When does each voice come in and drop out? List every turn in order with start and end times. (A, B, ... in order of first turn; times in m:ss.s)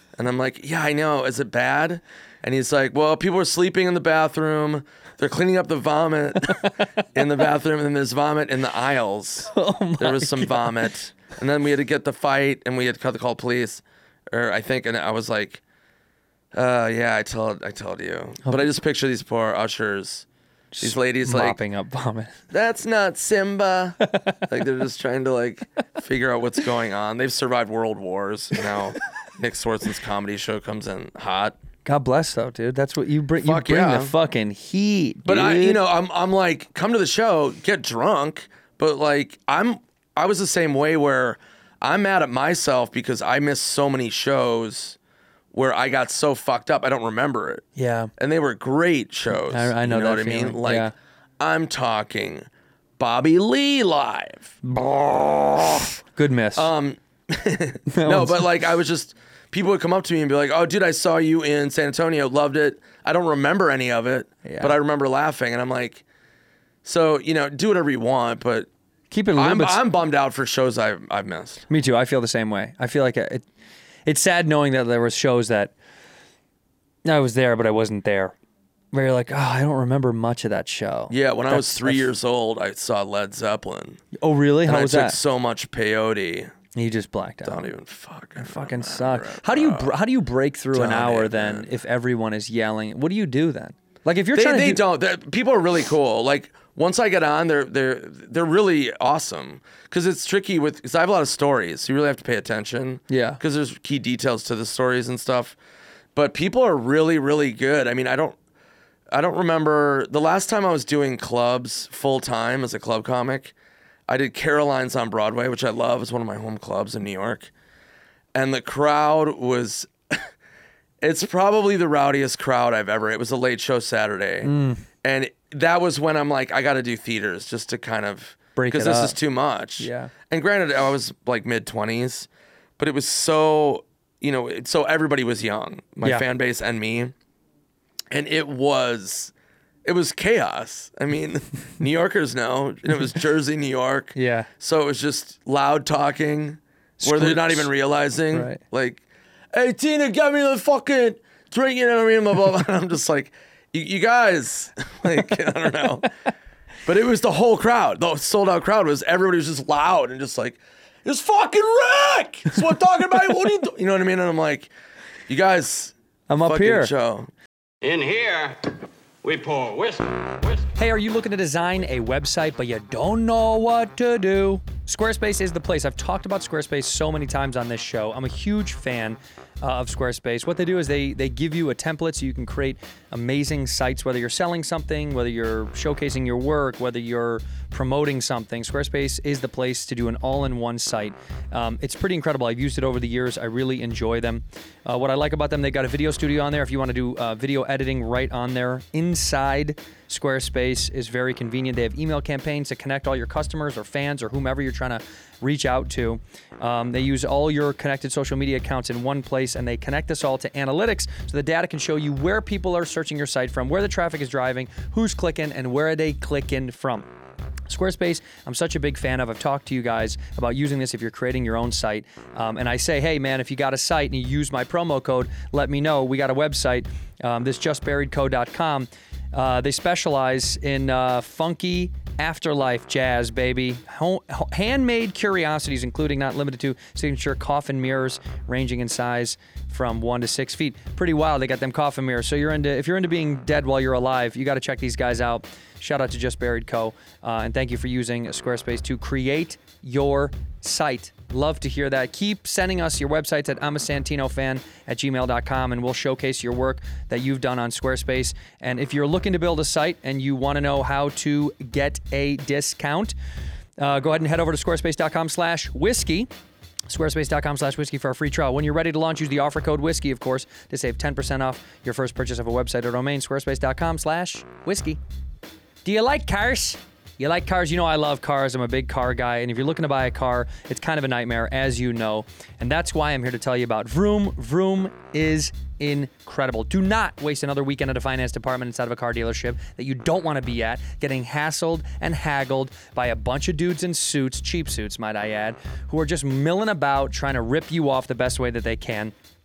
0:00.2-0:15.6 A
0:09.5-0:10.9 B
0:16.5-0:20.2 A
0:20.7-0:22.3 B
0:20.8-0:21.6 A
0:22.5-0:31.6 A
0:24.1-0:24.4 B
0:31.8-0:35.8 B
0:33.4-0:34.1 A
0:35.2-0:45.0 A
0:45.5-0:47.6 A
0:47.8-0:48.1 B
0:48.2-0:52.5 A
0:49.3-0:50.9 B
0:53.0-0:56.0 A
0:56.1-0:56.7 B
0:56.5-1:06.0 A
0:57.9-0:58.5 B
1:04.4-1:04.8 B
1:06.8-1:08.7 A
1:09.1-1:09.8 B
1:09.3-1:11.6 A
1:11.7-1:13.4 B
1:14.0-1:15.7 B
1:17.0-1:18.3 B
1:18.9-1:22.1 B
1:21.1-1:24.0 A
1:24.2-1:25.2 B
1:24.6-1:26.5 A
1:26.7-1:27.6 B
1:27.4-1:30.0 A
1:28.4-1:34.8 B
1:30.7-1:31.7 A
1:34.3-1:45.6 A
1:43.1-1:43.4 B
1:46.1-1:48.4 A
1:49.1-1:53.5 A
1:54.1-1:57.5 A
1:58.3-2:00.3 A
2:01.0-2:04.5 A
2:04.4-2:04.8 B
2:05.0-2:12.3 A
2:08.6-2:09.2 B
2:09.8-2:10.1 B
2:12.8-2:17.1 A
2:18.1-2:19.3 A
2:19.8-2:36.1 A
2:24.1-2:24.5 B
2:27.0-2:27.7 B
2:28.3-2:28.6 B
2:36.8-2:44.7 A
2:45.3-2:47.3 A
2:46.3-2:46.9 B
2:47.8-2:48.7 C
2:49.2-2:50.7 C
2:50.8-3:37.1 B
3:37.7-4:23.1 B
4:23.8-4:26.3 B
4:26.9-4:35.0 B
4:35.8-4:59.1 B